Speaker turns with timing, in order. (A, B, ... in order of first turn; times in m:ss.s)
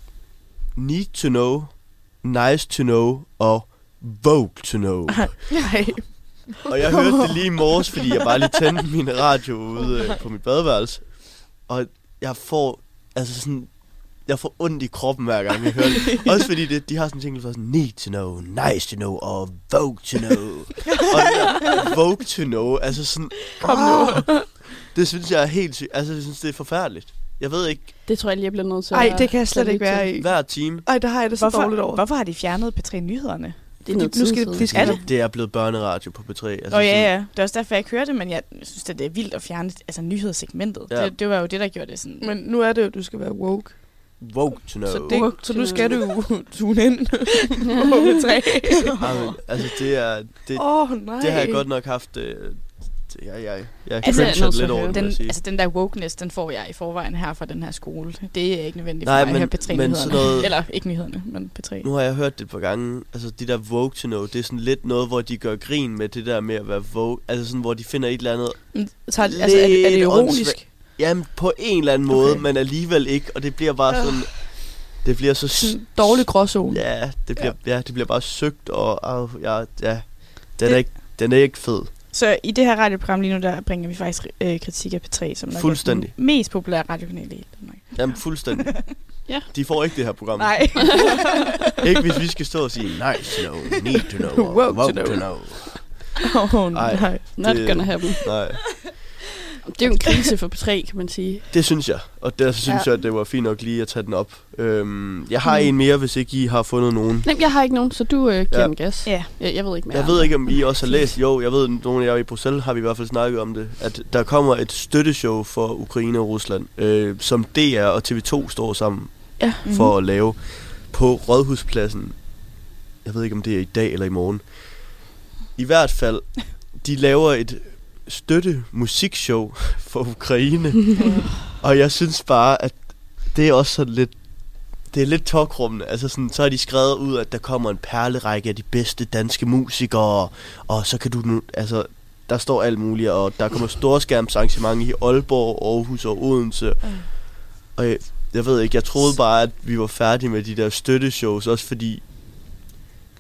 0:00.7-0:05.4 A
0:05.2-0:08.0 B
0:06.7-0:28.0 A
0:16.0-0:16.3 B
0:21.0-0:21.8 C
0:23.5-0:24.7 B
0:28.0-0:30.1 D
0:28.9-0:32.0 B
0:30.2-0:30.9 A
0:31.3-0:33.8 C
0:33.8-0:34.7 D
0:33.9-0:35.0 B
0:34.6-0:37.2 A
0:34.7-0:35.0 C
0:36.7-0:42.3 C
0:40.9-0:41.1 A
0:42.2-0:49.4 B
0:44.2-0:45.2 A
0:45.1-0:46.0 D
0:48.9-0:49.4 C
0:49.0-0:55.4 A
0:50.5-0:51.6 B
0:54.0-0:55.0 D
0:54.0-1:01.9 C
0:59.0-1:00.5 A
1:01.8-1:21.9 A
1:08.7-1:11.0 B
1:12.1-1:12.4 B
1:15.6-1:17.6 B
1:22.1-1:28.9 C
1:25.5-1:26.1 A
1:27.9-1:31.0 A
1:30.3-1:31.8 C
1:31.8-1:36.1 A
1:34.3-1:37.4 B
1:36.7-1:39.1 A
1:37.4-1:38.7 D
1:39.6-1:41.5 D
1:41.5-1:47.3 A
1:47.2-1:51.2 D
1:48.5-1:49.1 A
1:49.0-1:49.3 C
1:49.9-2:32.0 A
1:59.4-1:59.6 B
1:59.6-1:59.9 C
2:11.0-2:11.5 C